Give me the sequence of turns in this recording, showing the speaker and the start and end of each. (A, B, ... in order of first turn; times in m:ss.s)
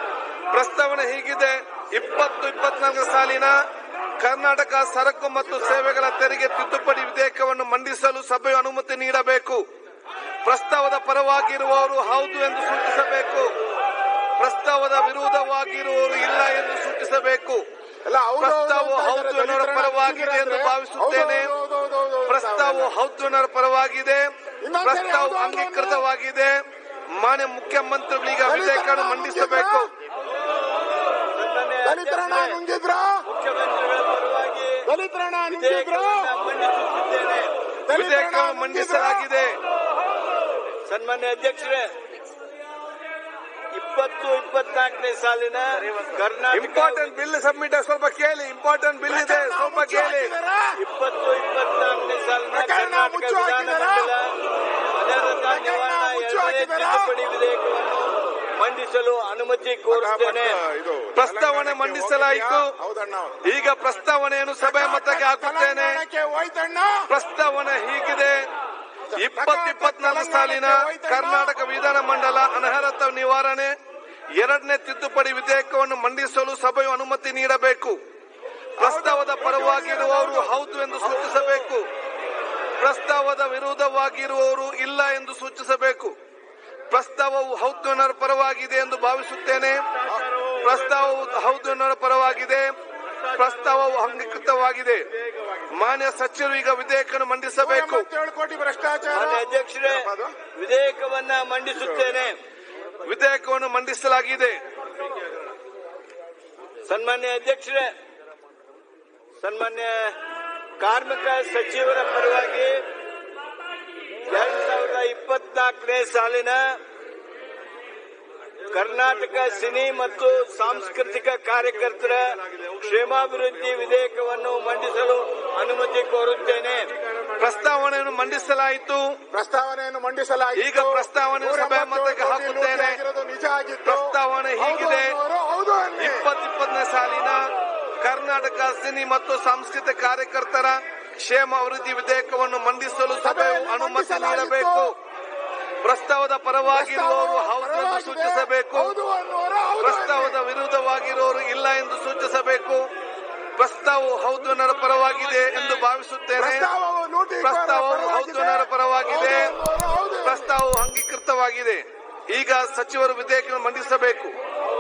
0:00.5-0:03.5 A
0:04.2-0:09.6 A
0:10.4-0:13.5 A
0:14.4-0:17.6 A
0:18.1-0:22.9 B
0:18.4-0:21.5 A
0:22.3-0:24.3 A
0:24.6-0:26.1 B
0:24.8-0:26.6 A
0:27.2-0:29.9 A
0:28.5-0:29.9 B
0:31.3-0:32.6 C
0:31.8-0:33.2 B
0:33.3-0:34.9 C
0:34.9-0:36.3 B
0:35.5-0:37.5 C
0:37.9-0:39.3 B
0:37.9-0:39.6 A
0:40.9-0:41.9 C
0:43.7-0:47.2 C
0:46.5-0:50.3 A
0:49.1-0:50.8 B
0:50.8-0:54.3 C
0:52.5-0:54.1 B
0:55.0-1:00.6 C
0:55.4-0:57.2 B
0:59.9-1:03.4 B
1:01.2-1:02.7 A
1:03.4-1:06.0 A
1:04.6-1:07.1 B
1:07.1-1:08.4 A
1:09.1-1:11.6 B
1:09.2-1:13.7 A
1:14.4-1:18.0 A
1:18.8-1:21.8 A
1:18.8-1:21.4 B
1:22.8-1:26.1 A
1:26.9-1:29.8 A
1:30.5-1:32.7 A
1:33.3-1:35.1 A
1:35.8-1:38.1 A
1:37.6-1:40.3 B
1:39.1-1:42.4 C
1:43.0-1:44.6 A
1:46.8-1:47.9 C
1:49.4-1:50.2 C
1:50.8-1:52.8 C
1:54.3-1:56.8 C
1:58.7-2:06.9 C
2:07.4-2:09.2 A
2:09.3-2:16.3 B
2:10.6-2:13.0 A
2:13.8-2:15.2 A
2:16.0-2:17.4 A
2:18.0-2:24.9 A
2:23.2-2:24.9 B
2:25.8-2:28.9 A
2:26.7-2:30.4 B
2:29.8-2:32.8 A
2:33.6-2:36.7 A
2:36.4-2:40.5 B
2:37.4-2:39.5 A
2:40.2-2:44.3 A